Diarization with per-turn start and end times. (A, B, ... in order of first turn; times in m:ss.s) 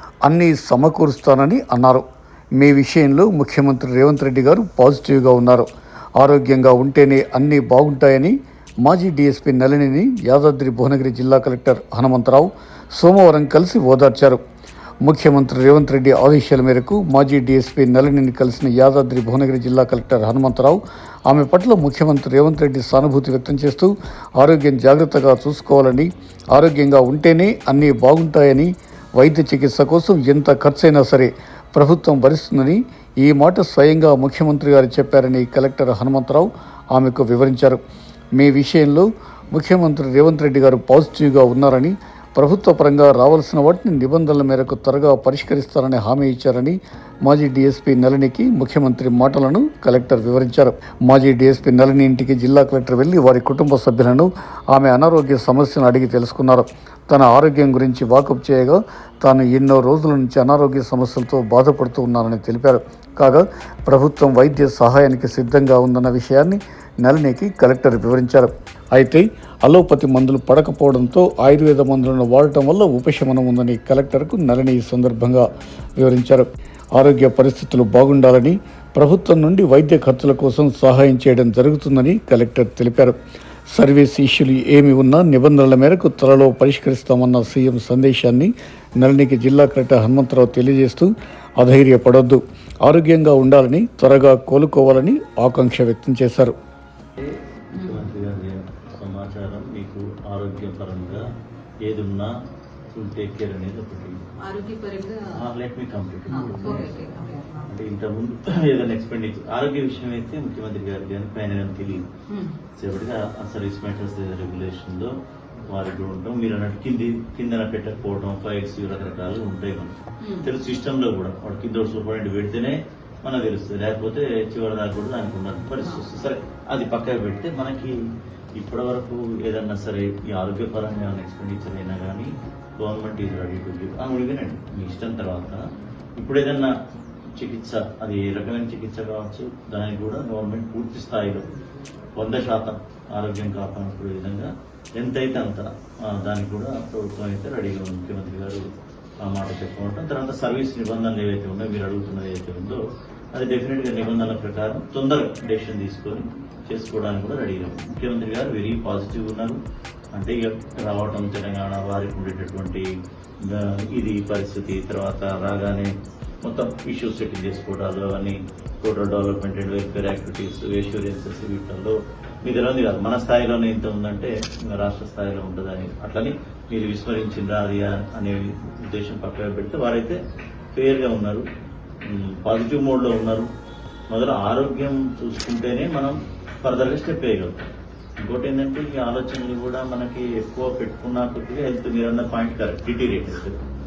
0:00.3-0:02.0 A
0:02.6-0:14.4 A
0:15.0-0:37.8 A
0:38.4-1:15.5 A
1:16.0-1:23.2 A
1:23.7-1:36.6 A
1:37.2-1:41.2 B
1:37.8-1:38.0 C
1:41.8-1:42.3 B
1:42.9-1:44.2 B
1:44.4-1:45.4 C
1:45.3-1:47.1 B
1:46.3-1:47.7 C
1:47.6-1:52.0 B
1:52.3-1:52.6 C
1:52.8-1:55.1 B
1:55.7-2:08.0 B
2:00.2-2:00.5 C
2:05.8-2:06.1 C
2:08.6-2:15.6 B
2:16.2-2:16.7 B
2:17.4-2:21.4 B
2:22.2-2:28.6 B
2:29.2-2:32.8 B
2:33.3-2:39.6 B
2:40.1-2:42.9 B
2:43.4-2:45.9 B
2:46.4-3:00.2 B
3:00.8-3:01.4 B
3:02.1-3:03.5 B
3:04.1-3:07.7 B
3:08.2-3:13.6 B